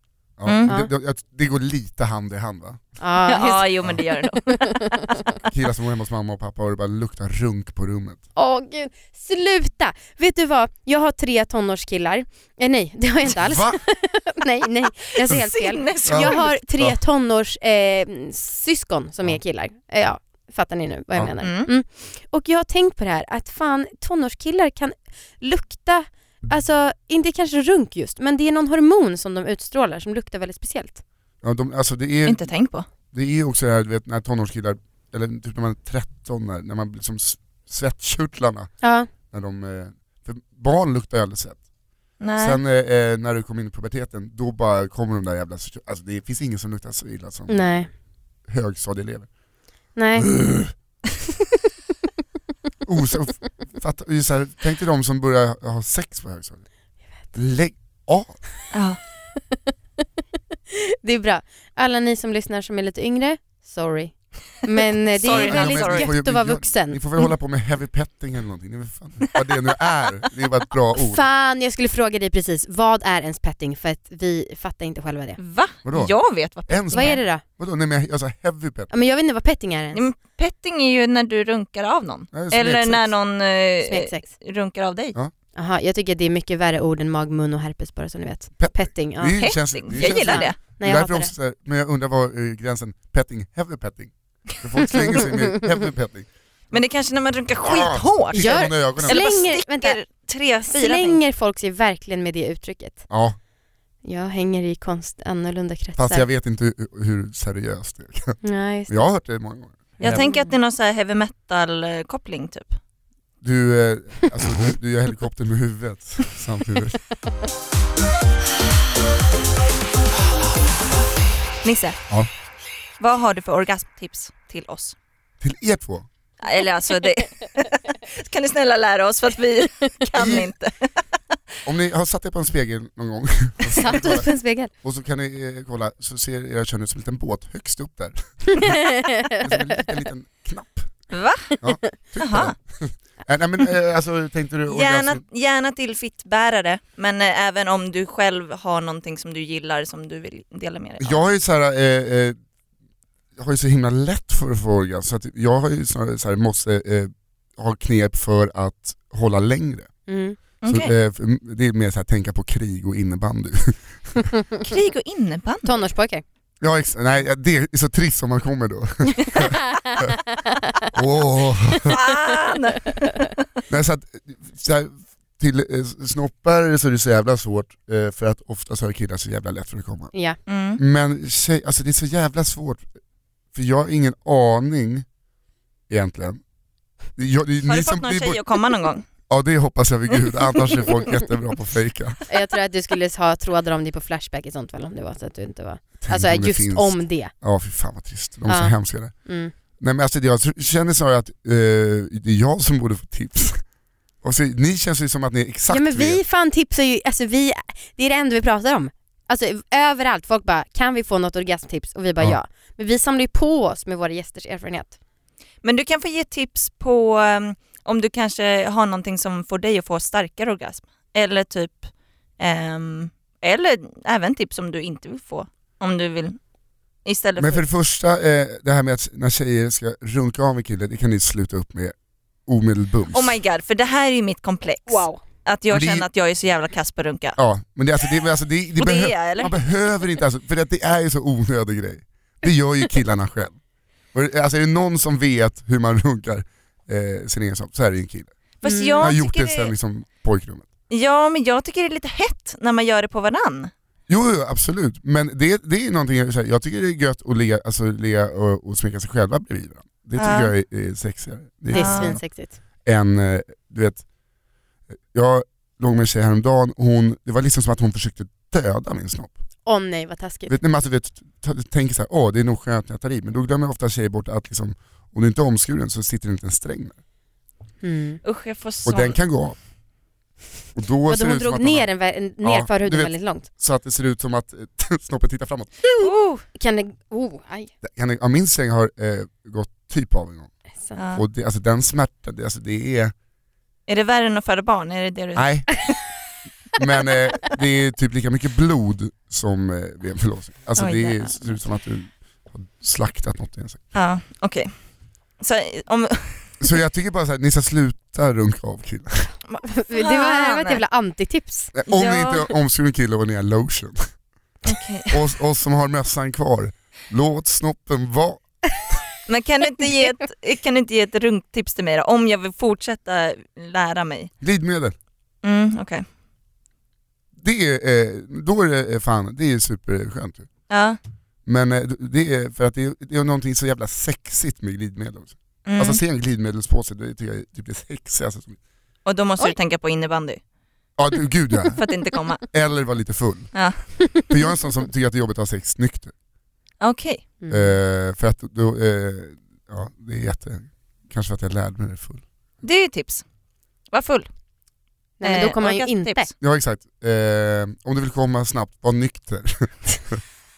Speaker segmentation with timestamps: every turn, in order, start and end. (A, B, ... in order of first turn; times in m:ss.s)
0:00.4-0:02.9 A
0:00.4-0:00.7 B
0:03.0-0:05.0 C
0:03.3-0:04.8 B
0:05.4-0:08.2 A
0:08.4-0:31.0 C
0:13.3-0:13.8 A
0:15.2-0:16.5 B
0:16.0-0:17.0 A
0:21.4-0:21.7 B
0:31.4-0:32.4 A
0:32.2-0:32.8 B
0:33.1-0:38.7 A
0:38.8-0:39.1 C
0:39.3-0:41.6 A
0:42.2-0:42.6 B
0:42.4-0:47.8 A
0:47.5-0:47.9 C
0:48.4-0:49.3 A
0:50.0-0:50.3 C
0:50.2-0:50.7 A
0:52.8-0:56.6 A
0:57.3-0:58.4 A
0:58.7-0:59.0 B
1:00.7-1:07.0 C
1:05.2-1:06.1 B
1:05.3-1:11.2 A
1:11.0-1:15.4 C
1:15.4-1:17.2 B
1:15.8-1:16.2 A
1:16.7-1:18.9 A
1:16.9-1:17.4 C
1:18.9-1:20.0 C
1:19.9-1:25.2 B
1:22.3-1:23.1 A
1:23.8-1:24.2 C
1:25.5-1:31.3 C
1:28.6-1:36.3 A
1:29.4-1:30.6 B
1:36.7-1:41.2 B
1:37.6-1:39.3 A
1:38.3-1:40.0 C
1:40.7-1:43.1 C
1:43.1-1:43.4 A
1:44.0-1:46.2 C
1:46.0-1:50.3 A
1:48.4-1:49.1 C
1:50.0-1:52.8 B
1:50.0-1:50.5 C
1:53.4-1:57.0 A
2:01.6-2:02.0 B
2:03.0-2:04.9 B
2:05.4-2:06.1 A
2:06.4-2:10.8 B
2:10.2-2:10.5 A
2:11.6-2:14.3 A
2:13.8-2:14.7 C
2:14.8-2:20.9 A
2:18.5-2:19.6 C
2:21.1-2:21.5 B
2:21.6-2:25.2 A
2:22.2-2:22.5 B
2:24.7-2:31.2 B
2:31.0-2:32.4 A
2:33.4-2:39.9 A
2:40.1-2:40.4 C
2:40.6-2:40.9 B
2:40.6-2:44.2 A
2:44.6-2:45.8 B
2:45.6-2:46.2 C
2:46.6-2:50.2 A
2:49.2-2:50.9 C
2:50.9-2:52.0 A
2:51.9-2:53.3 B
2:53.7-3:00.1 A
3:00.5-3:00.8 B
3:00.8-3:02.9 A
3:03.5-3:05.0 A
3:05.9-3:06.4 A
3:07.2-3:08.4 A
3:07.6-3:09.1 B
3:09.3-3:12.2 A
3:12.3-3:17.3 C
3:16.0-3:19.1 A
3:18.5-3:19.5 C
3:19.8-3:23.6 A
3:24.2-3:26.2 A
3:25.7-3:35.0 C
3:35.6-3:46.4 B
3:47.0-3:47.6 B
3:47.4-3:51.9 A
3:52.4-3:53.4 A
3:53.1-3:57.4 B
3:54.9-3:55.2 C
3:55.7-3:56.1 A
3:57.4-4:03.6 A
3:58.8-3:59.5 B
4:04.1-4:08.3 A
4:08.6-4:09.7 B
4:08.6-4:09.1 C
4:09.0-4:10.7 A
4:10.9-4:13.7 B
4:14.1-4:22.2 A
4:20.2-4:20.5 B
4:21.7-4:22.6 C
4:21.7-4:22.2 B
4:22.8-4:24.0 A
4:25.1-4:29.3 A
4:29.6-4:30.5 C
4:30.5-4:37.0 A
4:37.8-4:38.2 C
4:38.2-4:39.2 B
4:38.8-4:39.6 A
4:40.8-4:41.9 A
4:41.1-4:43.5 C
4:42.4-4:45.8 A
4:46.0-4:47.7 C
4:46.0-4:46.4 B
4:47.8-4:50.5 A
4:51.0-4:51.2 B
4:51.1-4:53.1 A
4:53.9-4:56.0 B
4:55.3-4:55.7 A
4:56.7-5:03.8 A
5:00.8-5:01.4 B
5:03.9-5:04.7 B
5:05.4-5:06.5 B
5:06.6-5:09.3 A
5:09.5-5:10.8 B
5:09.6-5:11.7 C
5:11.7-5:14.0 A
5:11.9-5:12.4 B
5:14.6-5:15.1 B
5:15.1-5:18.4 A
5:19.3-5:24.3 B
5:24.4-5:25.0 A
5:25.4-5:26.0 B
5:27.4-5:30.5 A
5:30.7-5:31.0 B
5:31.4-5:38.6 A
5:35.6-5:36.0 B
5:39.0-5:40.4 B
5:41.0-5:41.8 A
5:41.8-5:42.4 B
5:42.4-5:43.5 A
5:44.3-5:46.1 A
5:46.8-5:47.2 B
5:47.4-5:47.7 C
5:47.5-5:52.2 A
5:52.6-5:53.2 B
5:53.9-5:54.3 B
5:55.2-5:56.3 C
5:55.2-5:56.2 B
5:56.4-6:00.2 A